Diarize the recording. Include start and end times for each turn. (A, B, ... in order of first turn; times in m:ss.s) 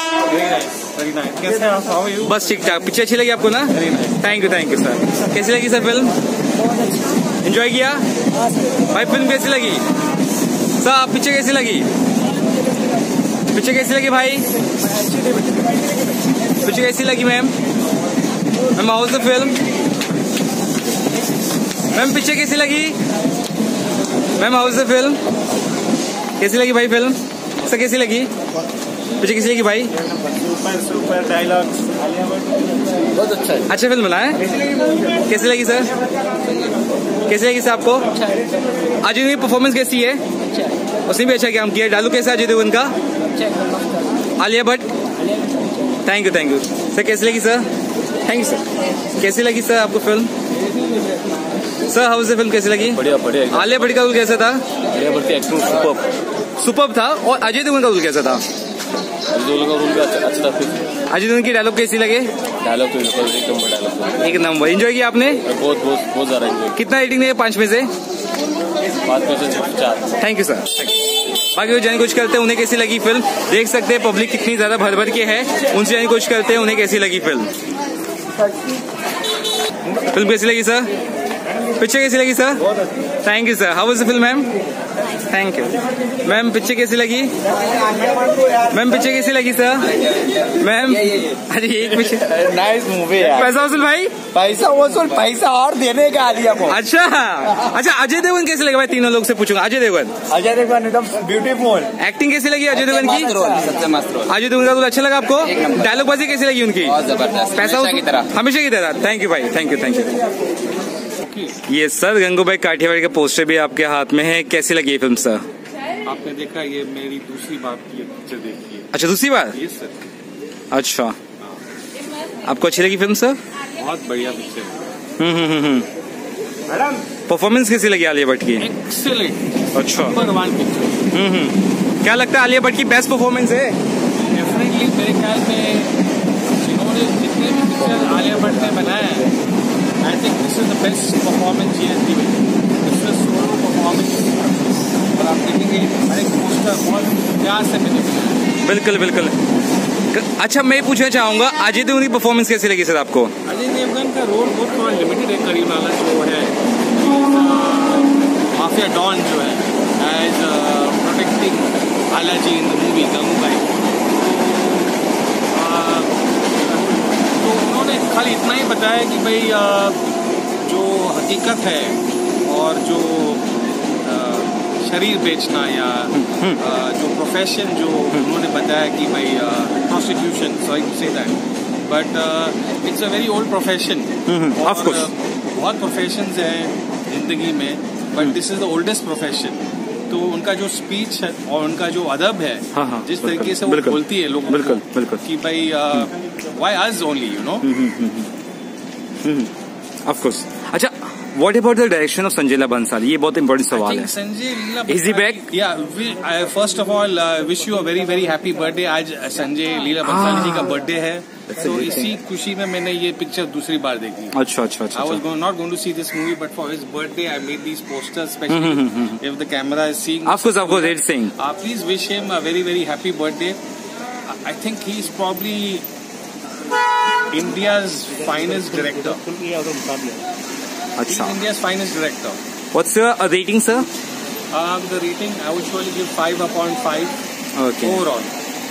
0:00.3-0:02.6 A
0:02.2-0:06.1 B
0:03.8-0:04.1 A
0:07.4-0:08.0 B
0:08.9-0:09.8 B
0:10.8-0:11.9 B
0:13.5-0:14.5 B
0:16.6-0:17.6 B
0:18.8-0:19.6 B
0:21.9-0:23.0 B
0:24.4-0:25.2 B
0:26.4-0:28.3 B
0:29.2-0:29.9 B
0:30.6-0:31.8 A
0:33.2-0:33.6 C
0:33.7-0:34.4 B
0:35.3-0:35.9 B
0:37.3-0:38.2 B
0:39.0-0:40.2 B
0:41.0-0:42.9 B
0:43.5-0:44.0 C
0:44.4-0:44.9 B
0:46.0-0:47.7 B
0:48.2-0:48.6 B
0:49.2-0:50.3 B
0:51.9-0:54.6 B
0:52.9-0:54.0 C
0:54.9-0:56.1 C
0:56.6-0:58.4 B
0:59.3-1:00.9 C
1:01.1-1:02.3 B
1:02.6-1:04.3 C
1:04.2-1:05.4 B
1:05.4-1:06.8 C
1:06.7-1:07.9 B
1:09.0-1:10.2 C
1:10.2-1:10.9 B
1:11.5-1:17.5 B
1:20.1-1:20.9 B
1:21.8-1:22.7 B
1:23.2-1:24.5 B
1:25.3-1:27.3 B
1:28.7-1:32.4 B
1:32.3-1:33.5 D
1:32.6-1:33.0 A
1:33.2-1:34.2 B
1:34.4-1:36.7 D
1:34.4-1:35.0 A
1:36.6-1:40.2 B
1:40.4-1:41.1 A
1:40.4-1:41.9 D
1:42.0-1:43.5 B
1:42.9-1:44.3 D
1:44.2-1:50.2 B
1:47.0-1:48.2 D
1:51.2-1:51.6 A
1:51.7-1:55.4 B
1:56.0-1:58.9 A
1:58.9-1:59.6 B
1:59.5-2:00.0 A
2:00.7-2:01.2 B
2:02.4-2:03.4 B
2:03.8-2:04.8 A
2:05.2-2:05.9 B
2:07.3-2:08.7 B
2:08.6-2:11.0 A
2:09.7-2:10.2 B
2:11.1-2:13.8 B
2:14.3-2:16.0 A
2:16.6-2:19.3 A
2:20.0-2:28.5 A
2:28.6-2:29.4 B
2:30.1-2:33.3 B
2:33.4-2:45.0 A
2:45.5-2:53.5 A
2:54.0-3:17.7 A
2:56.2-2:56.6 B
3:04.3-3:05.1 B
3:12.7-3:15.2 B
3:17.6-3:18.3 B
3:19.2-3:19.5 B
3:20.1-3:24.1 B
3:23.7-3:34.4 A
3:24.9-3:25.5 B
3:30.0-3:30.8 B
3:31.5-3:32.1 B
3:34.3-3:35.2 B
3:34.9-3:43.6 A
3:38.5-3:39.2 B
3:40.2-3:41.3 B
3:44.3-3:45.8 A
3:47.3-3:50.2 A
3:51.0-3:51.4 B
3:51.1-3:52.4 A
3:52.7-3:53.9 B
3:54.5-3:57.2 A
3:57.6-3:58.0 B
3:57.8-3:58.3 A